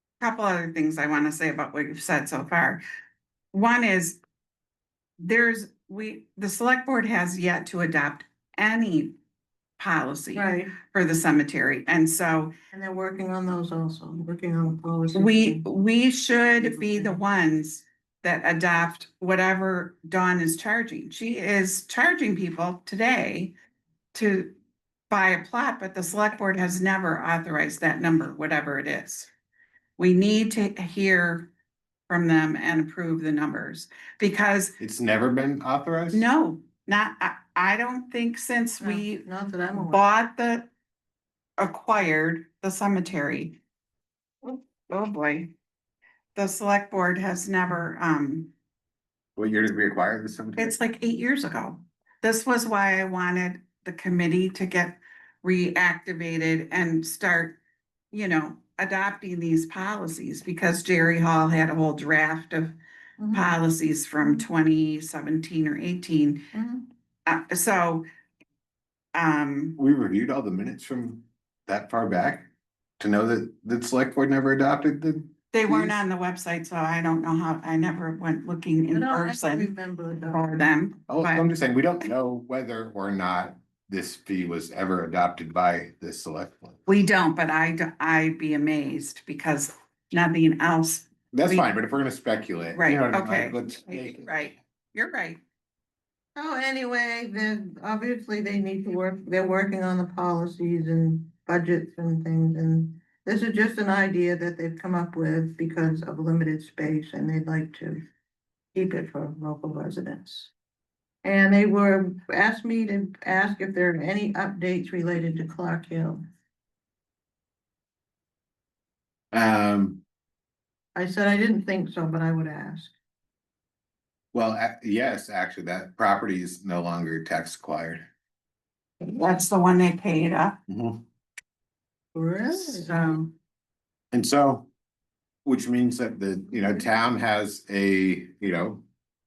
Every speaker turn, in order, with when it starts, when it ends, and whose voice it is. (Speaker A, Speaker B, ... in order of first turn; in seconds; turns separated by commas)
Speaker A: 0.2-2.8, Speaker A: 3.5-4.2, Speaker A: 5.2-9.1, Speaker A: 9.8-12.5, Speaker B: 10.3-10.7, Speaker B: 12.7-15.6, Speaker A: 15.1-23.5, Speaker B: 16.6-17.2, Speaker A: 24.1-24.5, Speaker A: 25.1-29.3, Speaker A: 30.0-31.5, Speaker A: 32.1-34.8, Speaker C: 34.8-36.3, Speaker A: 36.1-39.2, Speaker B: 38.8-40.1, Speaker A: 39.8-40.7, Speaker A: 41.6-43.6, Speaker A: 44.4-45.5, Speaker A: 46.3-48.5, Speaker C: 49.4-50.7, Speaker A: 50.5-57.6, Speaker A: 58.1-62.8, Speaker B: 63.2-63.5, Speaker A: 63.3-66.4, Speaker B: 64.2-64.5, Speaker B: 66.5-66.9, Speaker A: 67.2-68.0, Speaker A: 69.1-69.8, Speaker C: 69.8-76.0, Speaker A: 75.5-79.7, Speaker B: 78.9-80.8, Speaker A: 80.3-81.5, Speaker C: 81.1-86.8, Speaker A: 86.9-91.7, Speaker C: 91.3-94.6, Speaker A: 92.7-95.4, Speaker B: 96.3-108.0, Speaker B: 108.7-110.5, Speaker B: 111.2-116.2, Speaker C: 119.3-120.0, Speaker B: 120.9-122.9, Speaker C: 124.3-128.1, Speaker A: 129.0-130.6, Speaker C: 130.7-131.0, Speaker B: 132.2-133.3, Speaker C: 134.1-134.7, Speaker C: 135.4-138.8